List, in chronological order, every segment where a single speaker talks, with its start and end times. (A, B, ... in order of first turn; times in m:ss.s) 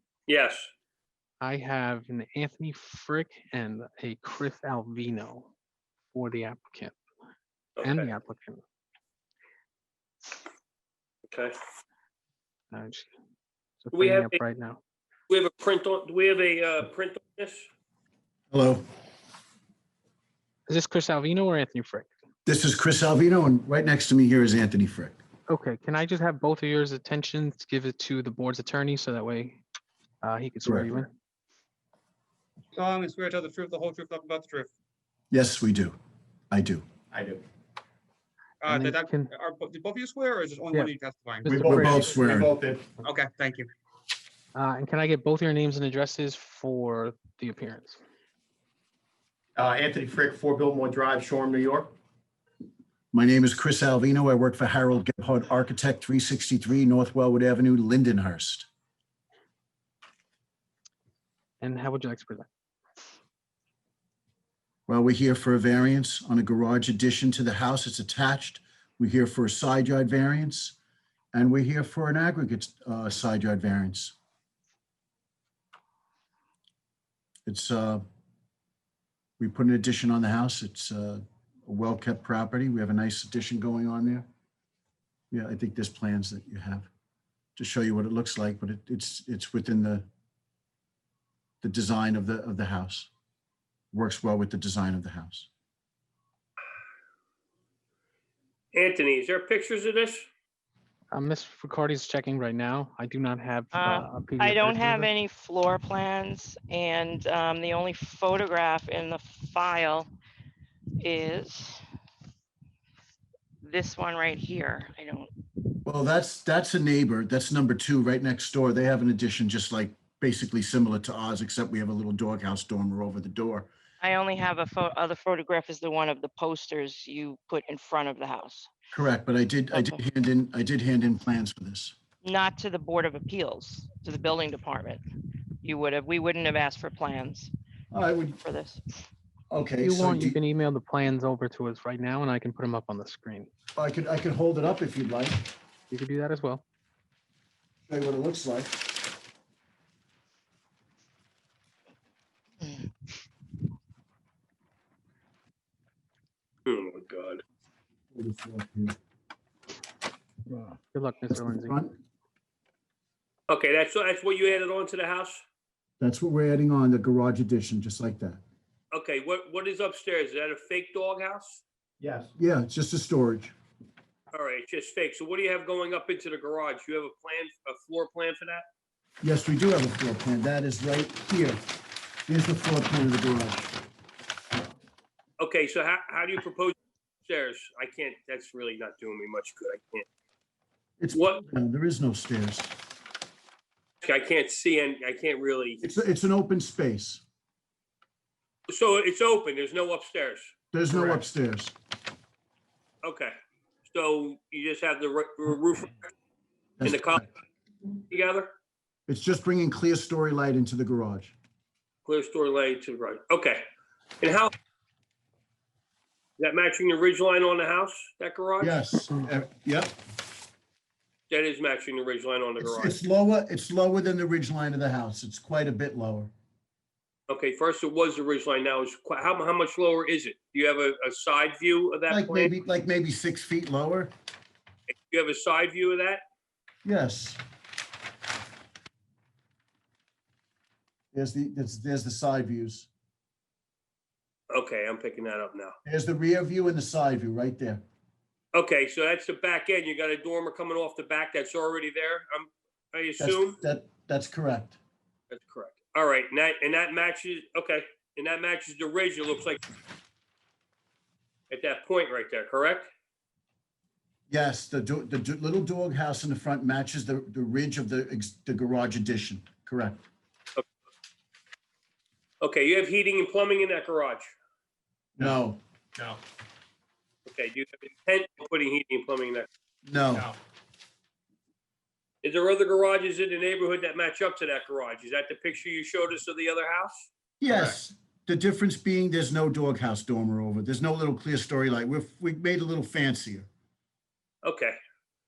0:00.3-0:00.7 A
0:01.4-0:05.5 B
0:06.1-0:07.0 B
0:07.8-0:08.1 A
0:07.8-0:08.6 B
0:11.3-0:11.6 A
0:12.7-0:13.1 B
0:13.8-0:14.8 B
0:13.9-0:14.4 A
0:15.3-0:17.7 A
0:18.5-0:18.8 C
0:20.7-0:22.1 B
0:22.4-0:25.2 C
0:25.5-0:29.6 B
0:30.2-0:31.1 B
0:30.6-0:31.0 C
0:32.7-0:34.7 D
0:35.3-0:36.0 C
0:36.5-0:36.8 C
0:37.1-0:37.4 E
0:38.6-0:41.8 D
0:38.7-0:39.3 B
0:41.4-0:42.1 B
0:41.5-0:42.5 C
0:41.9-0:42.9 E
0:43.0-0:43.7 D
0:44.5-0:48.0 B
0:49.6-0:51.9 E
0:53.1-0:58.7 C
1:01.6-1:02.5 B
1:04.9-1:10.8 C
1:11.3-1:14.1 C
1:17.5-1:18.0 C
1:19.4-1:24.3 C
1:25.3-1:26.9 C
1:27.6-1:30.1 C
1:31.6-1:33.1 C
1:33.9-1:35.5 C
1:38.7-1:40.3 A
1:41.1-1:45.1 B
1:43.7-1:50.1 F
1:51.0-1:51.8 F
1:53.6-1:55.3 F
1:55.8-2:03.7 C
2:04.0-2:08.7 F
2:08.9-2:11.9 C
2:09.7-2:10.0 F
2:12.2-2:15.0 F
2:15.6-2:17.5 F
2:17.9-2:18.4 C
2:18.4-2:18.8 F
2:19.5-2:20.4 C
2:19.8-2:23.5 B
2:23.8-2:25.4 C
2:25.9-2:26.6 B
2:27.9-2:28.8 C
2:36.6-2:37.4 A
2:38.1-2:39.0 C
2:40.5-2:41.8 B
2:41.3-2:41.9 C
2:43.5-2:45.4 A
2:46.0-2:48.4 C
2:48.9-2:51.6 A
2:52.0-2:52.3 E
2:52.4-2:53.5 C
2:54.3-2:58.6 A
2:59.2-3:01.6 C
3:02.3-3:03.7 C
3:05.4-3:10.0 A
3:11.0-3:12.7 C
3:11.1-3:11.4 A
3:14.0-3:15.8 A
3:15.8-3:17.2 C
3:18.7-3:21.2 A
3:20.7-3:21.7 C
3:23.0-3:23.3 A
3:23.8-3:25.9 A
3:26.8-3:27.3 C
3:26.8-3:27.2 A
3:28.1-3:28.5 A
3:29.1-3:31.3 C
3:32.0-3:33.6 A
3:34.2-3:34.5 A
3:36.4-3:38.8 A
3:38.6-3:40.0 C
3:41.3-3:43.0 A
3:42.6-3:46.3 C
3:47.3-3:52.5 A
3:52.1-3:54.1 C
3:54.9-3:56.2 A
3:56.8-3:57.4 C
4:01.1-4:02.9 C
4:04.5-4:05.7 A
4:05.8-4:07.8 C
4:08.5-4:13.6 A
4:13.2-4:14.8 C
4:15.3-4:19.6 A
4:21.5-4:22.9 A
4:24.3-4:30.0 C
4:32.4-4:34.3 A
4:35.2-4:35.6 C
4:37.3-4:39.5 A
4:39.8-4:40.3 C
4:42.2-4:47.1 A
4:47.4-4:53.5 C
4:54.4-4:54.7 A